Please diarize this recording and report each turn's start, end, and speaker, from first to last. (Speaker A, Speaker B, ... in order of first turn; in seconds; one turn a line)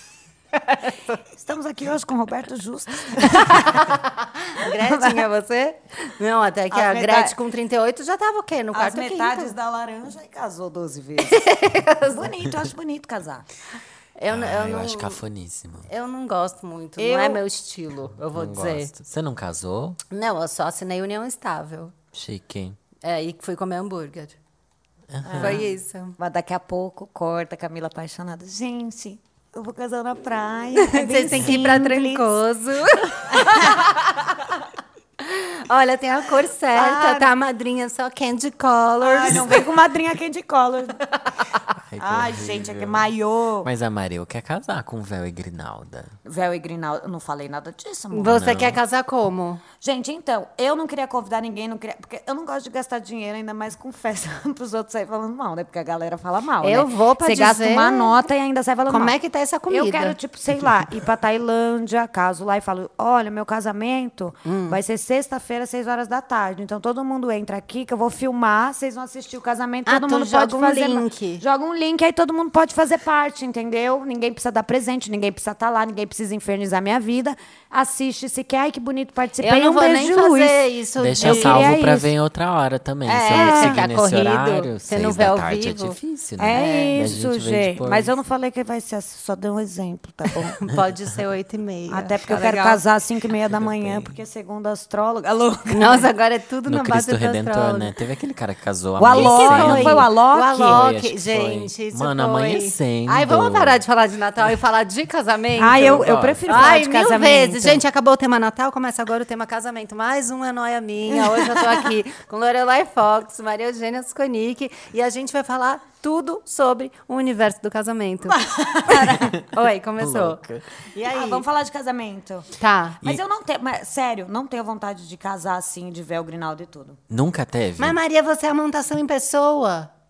Speaker A: 0.5-1.2
Speaker B: 1.4-3.9
Speaker A: 3.2-9.6
Speaker B: 4.6-5.2
Speaker B: 6.7-7.4
Speaker B: 8.7-11.4
Speaker A: 11.2-12.3
Speaker B: 12.1-13.5
Speaker A: 14.2-15.2
Speaker C: 14.3-15.9
Speaker A: 15.9-18.9
Speaker B: 17.0-17.4
Speaker C: 18.2-20.0
Speaker A: 20.1-21.9
Speaker C: 22.1-22.8
Speaker A: 23.0-24.4
Speaker C: 25.1-25.6
Speaker B: 25.2-32.3
Speaker A: 25.4-26.2
Speaker A: 30.8-34.4
Speaker C: 31.3-31.8
Speaker B: 33.2-33.8
Speaker A: 35.2-39.7
Speaker B: 36.7-37.3
Speaker B: 39.0-41.0
Speaker C: 41.8-43.1
Speaker B: 42.0-43.7
Speaker C: 43.6-46.1
Speaker B: 46.2-48.4
Speaker A: 48.1-49.6
Speaker C: 48.3-48.8
Speaker B: 49.8-59.1
Speaker A: 56.6-58.2
Speaker A: 58.9-60.2
Speaker B: 59.7-80.6
Speaker A: 64.5-64.8
Speaker A: 69.9-71.4
Speaker A: 79.4-81.9
Speaker C: 81.0-88.1
Speaker B: 81.2-82.1
Speaker A: 83.1-86.0
Speaker B: 83.3-83.8
Speaker B: 86.4-90.6
Speaker A: 86.5-87.0
Speaker A: 90.6-92.8
Speaker B: 91.9-96.1
Speaker C: 93.5-94.1
Speaker A: 95.7-97.9
Speaker C: 96.7-100.1
Speaker B: 99.0-100.8
Speaker A: 99.1-120.4
Speaker C: 100.6-103.8
Speaker B: 105.6-107.8
Speaker C: 105.6-106.8
Speaker B: 111.1-111.8
Speaker B: 118.3-119.4
Speaker C: 120.0-120.7
Speaker A: 120.9-121.4
Speaker B: 121.0-122.5
Speaker A: 122.6-123.0
Speaker B: 123.0-127.0
Speaker C: 127.1-128.0
Speaker A: 127.8-129.9